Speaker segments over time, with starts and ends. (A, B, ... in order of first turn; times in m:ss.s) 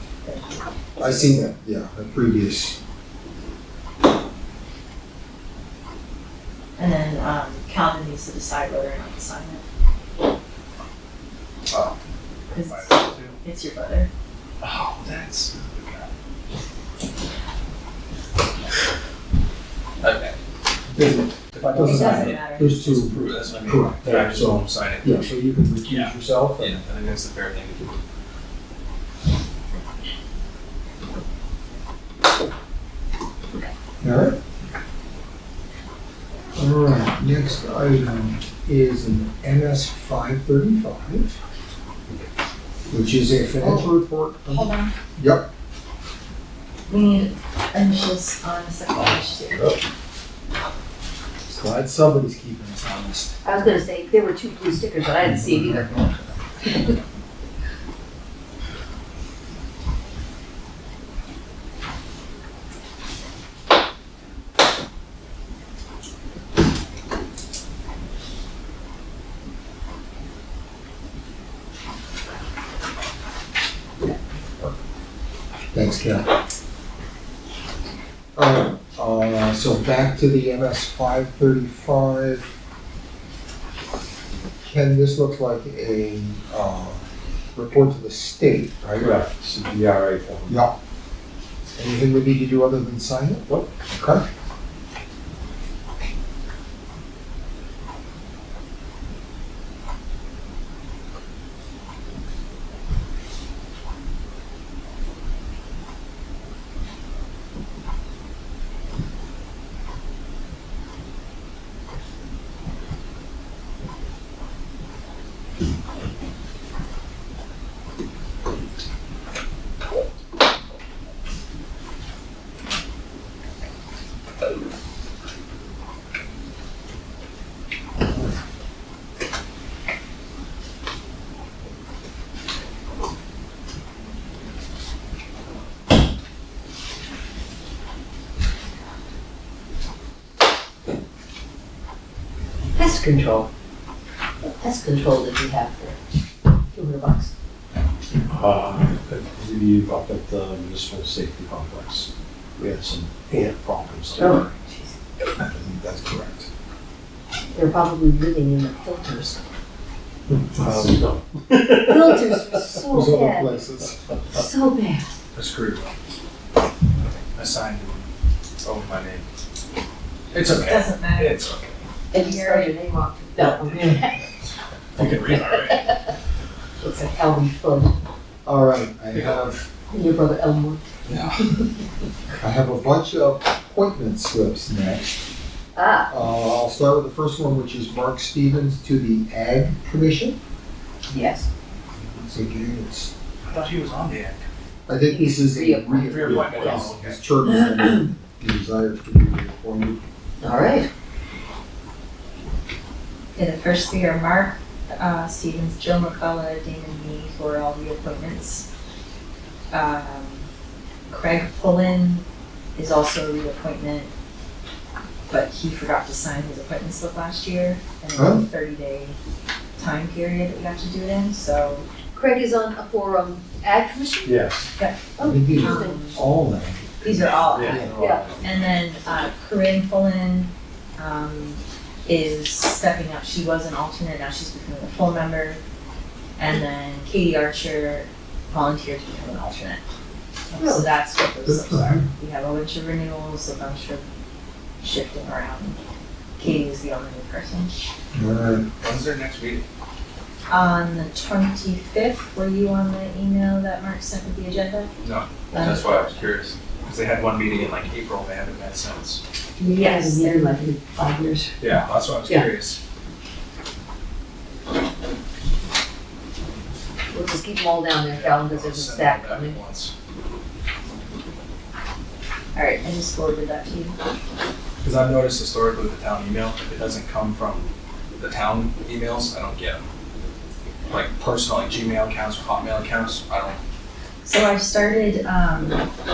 0:00.2-0:01.4 A
0:01.0-0:02.8 B
0:06.8-0:09.6 A
0:11.7-0:11.9 C
0:12.5-0:14.1 A
0:12.6-0:13.4 C
0:14.6-0:16.1 C
0:20.0-0:20.4 C
0:20.9-0:26.8 B
0:21.5-0:25.3 C
0:21.8-0:22.7 A
0:25.8-0:27.9 C
0:34.0-0:34.4 B
0:36.5-0:41.4 B
0:42.9-0:45.5 B
0:44.5-0:44.9 A
0:46.9-0:49.6 A
0:51.5-0:53.3 B
0:53.4-0:56.9 D
0:55.2-0:55.9 B
1:15.7-1:16.3 B
1:18.4-1:22.5 B
1:24.6-1:27.0 B
1:27.5-1:29.2 B
1:29.0-1:30.6 E
1:30.5-1:30.7 B
1:31.8-1:34.2 B
2:22.7-2:23.5 D
2:24.4-2:26.0 D
2:26.7-2:27.3 D
2:28.3-2:34.4 E
2:34.2-2:34.9 D
2:35.4-2:36.4 B
2:37.5-2:39.4 D
2:40.3-2:41.0 B
2:40.6-2:42.3 E
2:41.8-2:43.6 D
2:42.9-2:44.1 B
2:44.3-2:45.1 D
2:45.3-2:45.9 C
2:47.3-2:48.1 C
2:48.6-2:49.2 C
2:50.3-2:51.7 C
2:50.5-2:51.4 A
2:52.1-2:52.8 A
2:52.1-2:54.2 D
2:53.4-2:54.1 C
2:55.0-2:56.0 C
2:55.3-2:55.9 D
2:56.8-2:57.9 D
2:58.4-2:59.7 B
2:59.1-2:59.4 C
2:59.9-3:00.8 D
3:01.1-3:01.5 C
3:02.4-3:05.3 B
3:05.7-3:06.1 D
3:06.1-3:10.4 B
3:11.1-3:11.5 D
3:12.3-3:13.1 B
3:13.4-3:14.4 C
3:14.9-3:20.0 B
3:15.1-3:16.8 D
3:16.0-3:17.2 C
3:17.5-3:18.0 D
3:20.4-3:20.9 D
3:23.3-3:28.6 A
3:29.7-3:30.5 A
3:31.1-3:32.2 A
3:32.8-3:34.1 A
3:35.3-3:39.2 A
3:38.1-3:38.4 B
3:39.8-3:41.8 A
3:42.1-3:44.4 D
3:44.2-3:44.7 E
3:44.8-3:46.2 A
3:45.2-3:46.1 D
3:45.2-3:48.0 B
3:47.0-3:47.9 A
3:47.2-3:47.6 C
3:47.5-3:48.6 E
3:47.9-3:48.2 D
3:48.4-3:55.6 A
3:56.4-3:59.8 A
4:00.5-4:04.0 A
4:00.6-4:00.9 D
4:01.4-4:02.0 B
4:04.8-4:05.8 A
4:06.4-4:07.7 A
4:08.1-4:08.6 B
4:08.8-4:09.6 C
4:10.5-4:14.9 A
4:15.0-4:19.2 C
4:15.5-4:16.1 A
4:19.6-4:21.6 D
4:19.7-4:20.6 A
4:21.6-4:22.8 C
4:27.1-4:29.6 D
4:28.1-4:29.9 C
4:32.5-4:34.0 A
4:34.8-4:39.8 C
4:40.9-4:43.6 C
4:44.2-4:45.9 A